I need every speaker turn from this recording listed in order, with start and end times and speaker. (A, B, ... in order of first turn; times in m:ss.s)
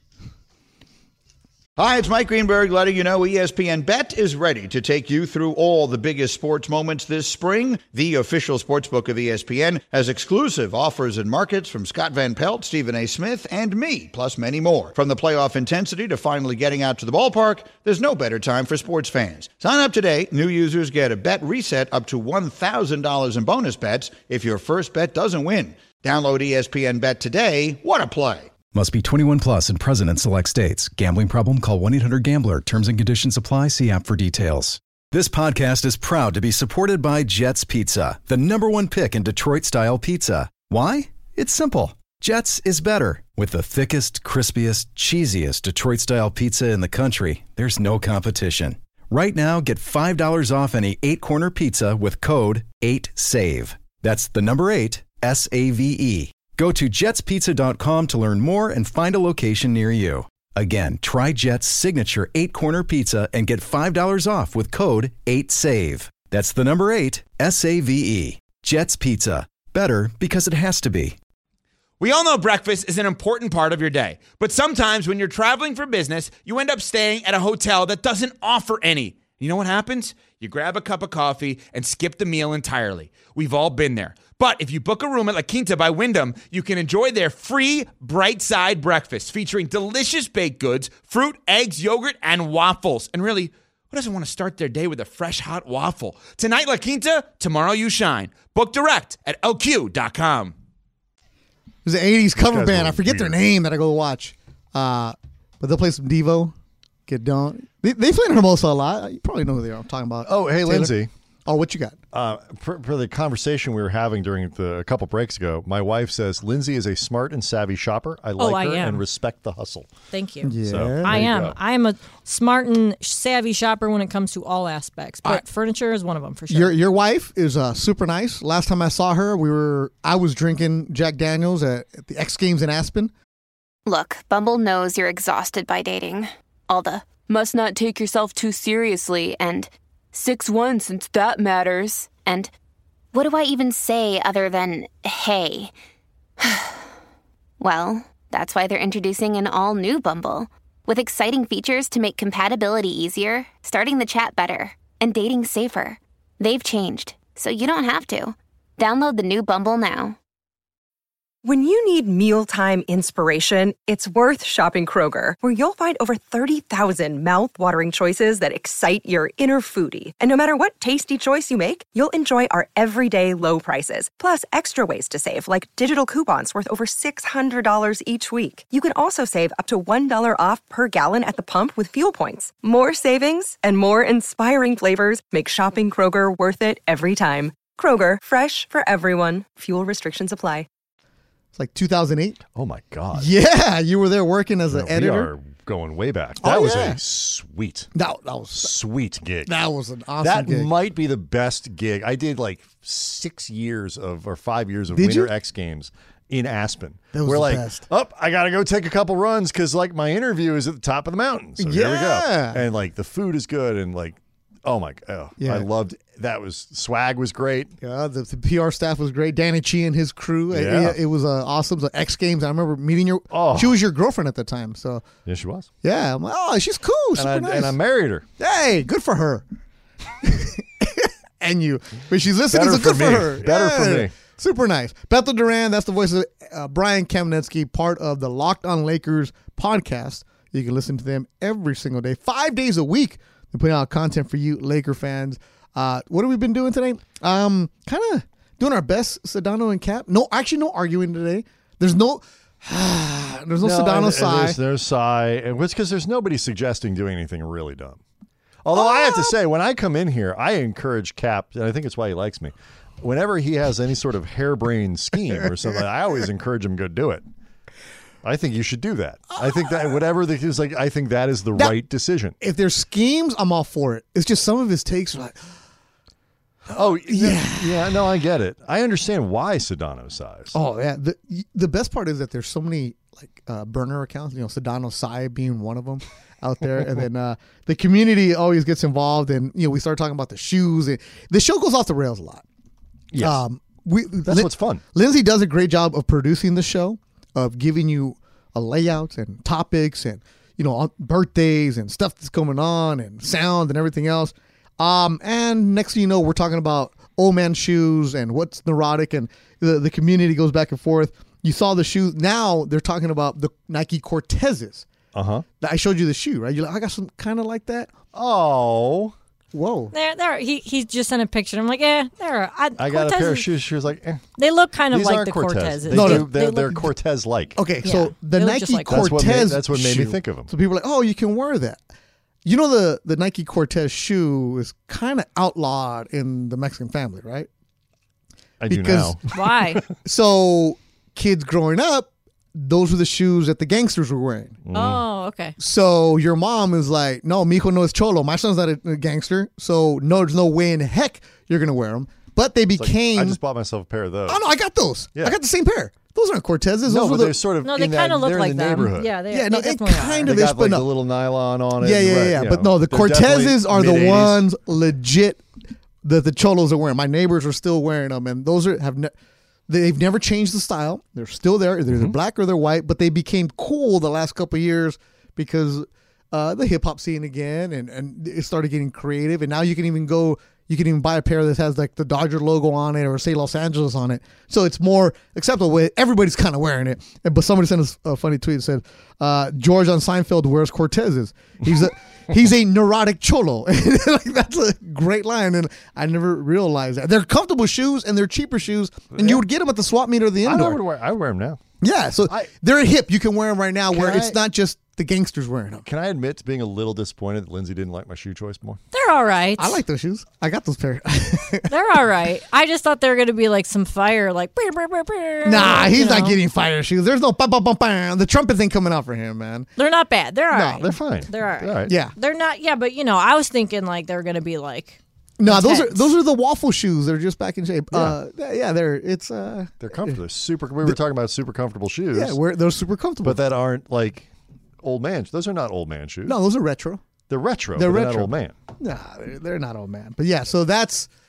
0:01.8-0:28.5 A
0:28.7-1:11.2 B
1:12.0-1:40.5 C
1:41.8-1:46.5 D
1:42.4-1:43.4 E
1:47.1-1:52.0 D
1:50.2-1:51.1 E
1:52.1-1:59.9 E
1:58.4-1:59.0 F
2:00.1-2:06.7 F
2:00.4-2:01.4 D
2:00.6-2:01.6 E
2:06.5-2:13.1 D
2:13.8-2:22.5 G
2:23.1-2:25.7 G
2:26.4-2:26.8 G
2:27.6-2:40.2 G
2:41.4-3:10.7 H
3:11.5-3:12.4 D
3:12.5-3:13.3 E
3:13.1-3:15.3 D
3:14.7-3:17.9 E
3:16.4-3:17.0 D
3:17.9-3:18.7 D
3:18.5-3:19.5 E
3:19.4-3:20.7 D
3:20.2-3:37.7 E
3:24.9-3:25.3 D
3:27.1-3:27.8 D
3:31.6-3:32.6 D
3:35.4-3:35.7 D
3:37.8-3:45.0 D
3:40.5-3:41.0 E
3:43.3-3:43.8 E
3:45.2-3:45.7 E
3:45.8-3:47.8 D
3:47.1-3:48.2 E
3:48.4-3:49.4 D
3:50.2-4:14.6 D
3:52.5-3:54.1 E
4:13.6-4:18.0 E
4:18.6-4:27.2 E
4:18.7-4:19.3 D
4:28.2-4:32.4 E
4:32.4-4:35.4 D
4:36.7-4:40.6 E
4:37.1-4:38.0 D
4:40.5-4:52.4 D
4:53.1-4:53.4 E
4:53.2-5:14.9 D
4:54.2-4:54.8 E
5:15.1-5:15.4 E
5:15.6-5:17.9 D
5:18.1-5:19.1 E
5:19.5-5:19.9 D
5:19.9-5:23.5 F
5:22.8-5:24.2 E
5:24.4-5:26.8 F
5:24.9-5:27.6 E
5:25.9-5:26.4 D
5:27.6-5:31.8 D
5:27.8-5:29.0 F
5:28.9-5:30.5 E
5:32.4-5:37.5 D
5:38.6-5:39.9 E
5:38.7-5:39.2 D
5:39.3-5:39.8 F
5:40.0-5:44.6 D
5:44.6-5:45.0 E
5:44.7-5:45.5 F
5:45.6-5:53.4 D
5:52.8-5:54.4 E
5:54.3-5:57.4 D
5:56.9-5:59.1 E
5:57.6-6:00.3 F
5:59.3-6:00.9 D
6:00.2-6:04.4 E
6:01.8-6:05.4 D
6:06.0-6:09.1 D
6:09.7-6:40.8 D
6:11.9-6:12.1 E
6:39.1-6:39.4 E
6:40.4-6:41.6 E
6:41.8-6:45.8 D
6:43.9-6:44.4 E
6:45.8-6:48.8 E
6:48.9-6:49.8 F
6:49.6-6:51.7 D
6:51.7-6:56.4 F
6:55.4-6:59.7 D
6:59.8-7:06.1 F
7:00.5-7:00.9 D
7:00.8-7:01.9 E
7:01.9-7:02.1 D
7:05.4-7:10.2 D
7:07.9-7:08.2 E
7:09.8-7:12.4 E
7:12.1-7:13.4 D
7:13.2-7:14.3 E
7:14.8-7:16.4 E
7:16.2-7:17.0 D
7:17.3-7:18.5 E
7:17.7-7:21.1 D